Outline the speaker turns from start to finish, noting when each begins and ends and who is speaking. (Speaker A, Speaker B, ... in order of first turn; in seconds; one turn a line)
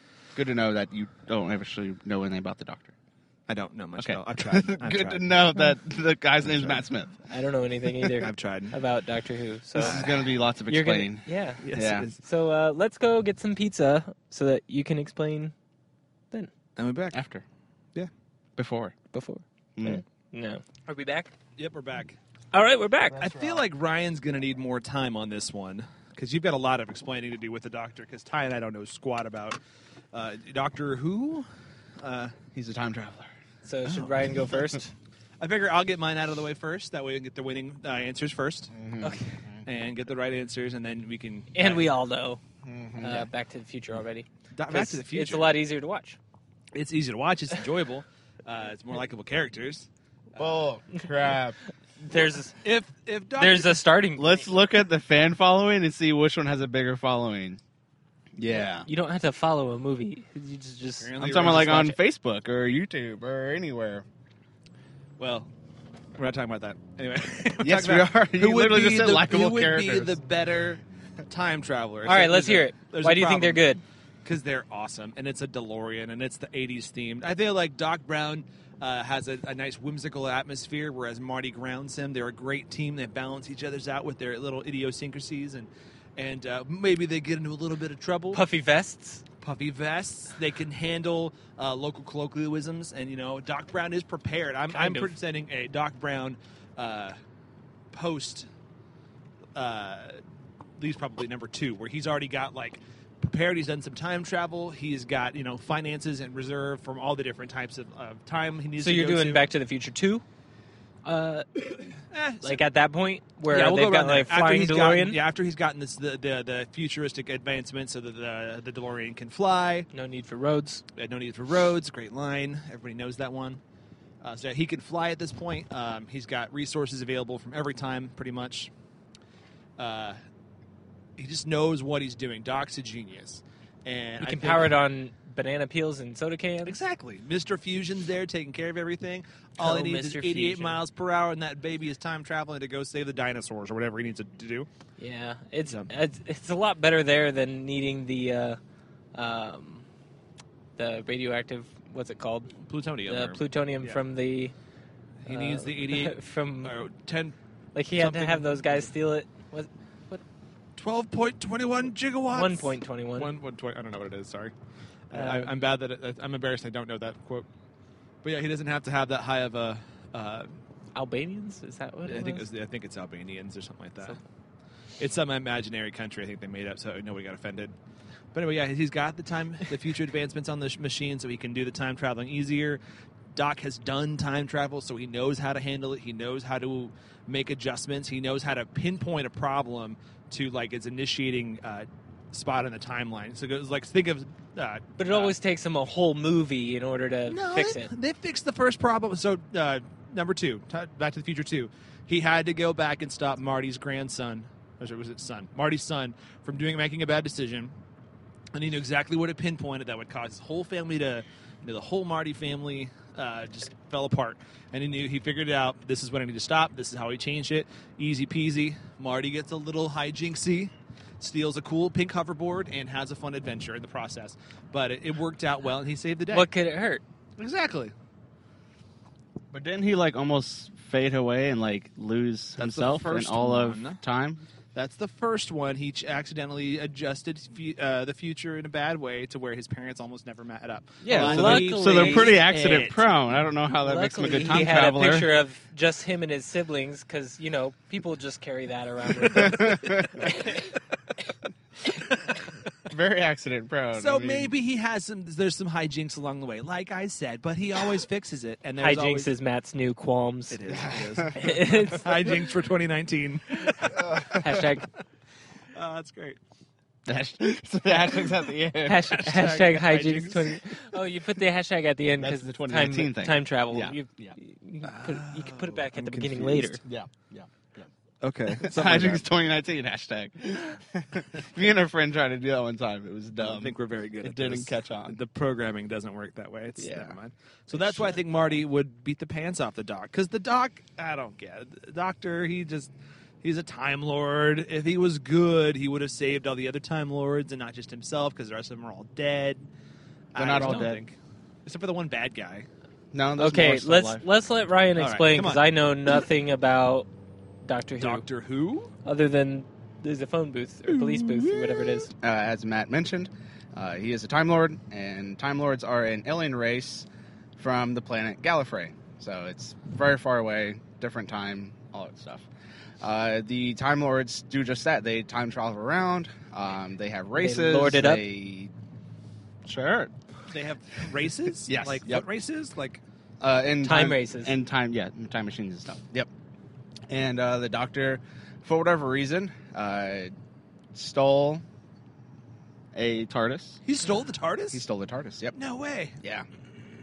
Speaker A: 0.3-2.9
Speaker B: 3.5-5.4
Speaker A: 4.0-7.2
Speaker B: 6.4-6.8
Speaker C: 7.3-10.0
Speaker B: 8.0-8.8
Speaker A: 9.8-12.1
Speaker B: 9.8-10.1
Speaker C: 10.7-11.6
Speaker B: 11.6-12.2
Speaker C: 12.2-15.5
Speaker B: 16.8-17.2
Speaker A: 17.1-17.4
Speaker A: 18.6-18.9
Speaker C: 19.1-21.3
Speaker A: 19.8-20.0
Speaker B: 21.6-22.2
Speaker C: 22.5-23.3
Speaker B: 23.1-29.6
Speaker B: 30.1-31.4
Speaker B: 32.0-32.3
Speaker A: 32.5-33.3
Speaker C: 33.6-34.9
Speaker B: 33.9-34.4
Speaker B: 35.4-38.7
Speaker A: 38.7-39.6
Speaker C: 39.0-39.4
Speaker B: 39.6-41.9
Speaker C: 41.5-42.4
Speaker A: 42.6-43.3
Speaker C: 43.0-46.2
Speaker B: 44.5-45.5
Speaker B: 46.7-49.9
Speaker A: 50.4-51.6
Speaker C: 52.0-52.6
Speaker B: 52.6-53.8
Speaker C: 53.4-54.5
Speaker A: 54.2-57.6
Speaker A: 58.4-58.9
Speaker C: 58.8-62.0
Speaker B: 61.0-61.9
Speaker A: 61.2-64.0
Speaker B: 65.2-65.5
Speaker B: 66.2-73.7
Speaker A: 67.6-70.2
Speaker C: 72.0-73.8
Speaker B: 74.2-88.4
Speaker C: 88.3-89.2
Speaker B: 89.4-97.2
Speaker C: 94.7-95.1
Speaker B: 97.9-98.5
Speaker B: 99.5-100.2
Speaker B: 100.8-109.4
Speaker C: 108.8-110.2
Speaker C: 111.0-115.2
Speaker B: 112.1-112.6
Speaker B: 113.5-119.9
Speaker C: 119.9-120.8
Speaker B: 121.0-123.6
Speaker B: 124.2-128.7
Speaker B: 129.8-130.2
Speaker B: 131.2-134.7
Speaker C: 134.2-136.8
Speaker B: 136.6-144.7
Speaker C: 139.6-140.8
Speaker C: 145.0-148.6
Speaker B: 145.7-145.9
Speaker C: 149.1-149.8
Speaker C: 150.8-152.5
Speaker B: 152.6-154.0
Speaker C: 153.1-154.5
Speaker B: 155.2-157.3
Speaker C: 155.3-156.7
Speaker C: 157.7-160.2
Speaker B: 158.0-158.9
Speaker B: 160.8-164.5
Speaker C: 162.3-163.3
Speaker B: 165.1-167.5
Speaker C: 165.1-165.5
Speaker B: 168.2-170.5
Speaker C: 170.9-172.5
Speaker B: 172.1-174.2
Speaker B: 175.0-177.7
Speaker B: 178.3-182.8
Speaker B: 183.3-195.3
Speaker C: 195.0-197.9
Speaker B: 197.3-207.7
Speaker B: 208.5-226.5
Speaker C: 226.3-227.0
Speaker B: 227.4-227.9
Speaker A: 229.5-234.4
Speaker B: 232.6-234.0
Speaker B: 234.7-243.0
Speaker A: 241.0-245.3
Speaker C: 241.1-242.4
Speaker C: 243.8-250.7
Speaker A: 249.3-250.3
Speaker A: 252.9-254.5
Speaker B: 253.9-259.3
Speaker C: 258.8-260.6
Speaker B: 260.5-264.7
Speaker A: 260.7-261.3
Speaker C: 261.3-262.4
Speaker C: 263.6-264.9
Speaker A: 263.9-264.4
Speaker B: 265.7-266.4
Speaker A: 267.1-269.2
Speaker C: 268.8-276.8
Speaker B: 269.1-270.6
Speaker A: 272.2-274.4
Speaker B: 274.8-276.8
Speaker A: 276.8-277.9
Speaker B: 278.2-279.2
Speaker A: 278.5-285.2
Speaker B: 283.4-292.9
Speaker A: 286.8-287.2
Speaker A: 287.7-288.2
Speaker B: 293.4-299.7
Speaker B: 300.3-302.7
Speaker A: 300.4-301.0
Speaker C: 300.6-300.9
Speaker A: 303.1-304.2
Speaker C: 303.4-307.1
Speaker B: 305.0-305.6
Speaker C: 307.6-308.2
Speaker B: 308.0-308.9
Speaker C: 309.0-312.1
Speaker B: 310.9-312.0
Speaker A: 312.1-322.5
Speaker A: 323.0-328.7
Speaker C: 327.4-328.2
Speaker A: 329.6-330.1
Speaker B: 330.5-333.0
Speaker A: 331.6-332.2
Speaker A: 333.4-336.3
Speaker C: 333.8-334.5
Speaker A: 337.1-340.3
Speaker A: 340.9-341.6
Speaker A: 342.9-343.8
Speaker B: 343.8-344.8
Speaker A: 344.7-345.6
Speaker B: 345.5-346.2
Speaker A: 346.2-346.5